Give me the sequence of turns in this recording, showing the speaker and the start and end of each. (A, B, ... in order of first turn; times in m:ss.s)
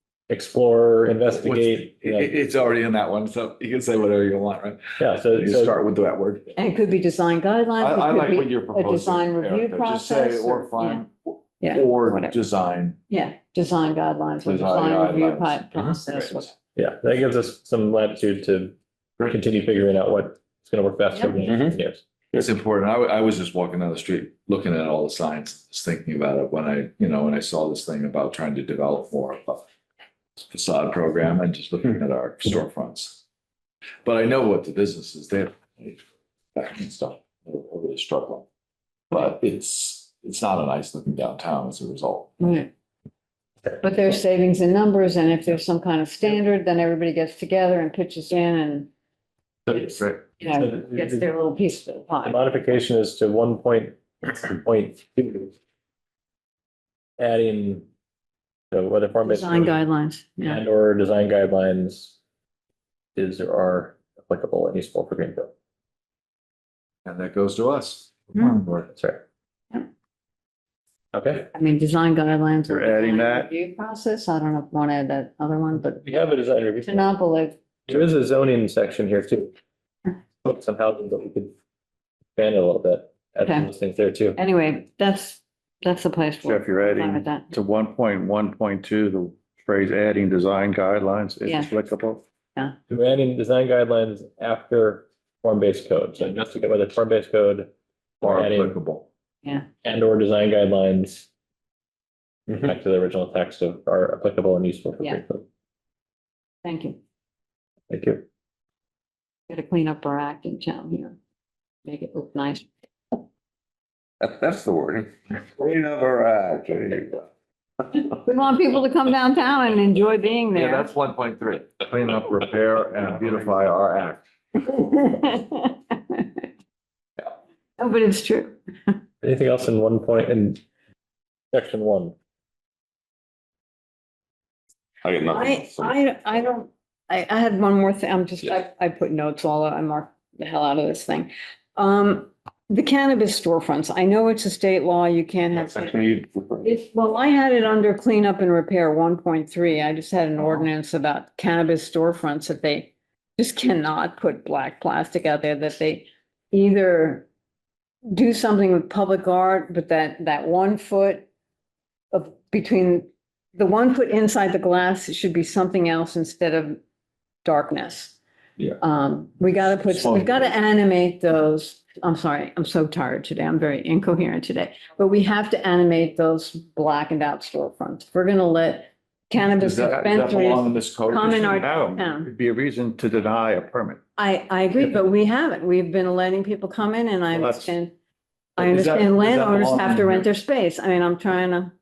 0:00.3-0:02.3 A
0:01.4-0:06.5 B
0:05.0-0:05.8 A
0:06.6-0:11.0 C
0:07.8-0:13.0 B
0:11.6-0:12.4 C
0:13.1-0:16.5 C
0:14.4-0:15.6 B
0:16.8-0:22.0 A
0:21.4-0:21.8 D
0:22.3-0:29.6 B
0:30.5-0:33.2 B
0:34.0-0:36.0 B
0:36.6-0:38.5 B
0:39.1-0:42.4 B
0:42.4-0:42.7 C
0:43.8-0:48.9 C
0:49.7-0:51.3 A
0:50.4-0:52.4 C
0:52.2-0:55.5 A
0:57.2-0:57.9 A
0:58.7-0:59.8 A
0:59.3-1:00.6 C
1:00.4-1:02.2 A
1:03.2-1:05.5 A
1:07.0-1:08.9 B
1:08.9-1:09.2 A
1:11.1-1:11.5 A
1:11.5-1:16.2 C
1:12.7-1:13.5 E
1:16.0-1:17.1 A
1:16.8-1:17.6 C
1:17.9-1:19.6 A
1:20.4-1:21.5 A
1:22.4-1:24.4 A
1:23.4-1:23.7 C
1:24.3-1:27.5 C
1:26.4-1:32.2 E
1:32.9-1:38.8 A
1:38.2-1:39.1 B
1:39.8-1:41.3 A
1:42.5-1:45.4 A
1:46.6-1:47.0 C
1:47.9-1:48.2 A
1:49.5-1:51.2 C
1:51.8-1:52.7 C
1:54.2-1:57.2 D
1:58.2-2:00.9 C
2:00.6-2:04.2 B
2:03.2-2:03.5 E
2:04.6-2:06.4 C
2:07.8-2:09.0 C
2:09.2-2:10.6 A
2:11.5-2:12.2 A
2:15.0-2:15.9 D
2:15.3-2:37.3 C
2:25.8-2:26.4 D
2:38.0-2:41.3 C
2:42.1-2:46.8 C
2:47.4-2:48.2 C
2:48.8-3:02.3 C
2:49.8-2:50.5 B
2:59.6-3:01.6 B
3:01.2-3:04.0 E
3:04.2-3:07.9 C
3:07.3-3:07.7 E
3:08.6-3:11.7 C
3:08.6-3:10.3 B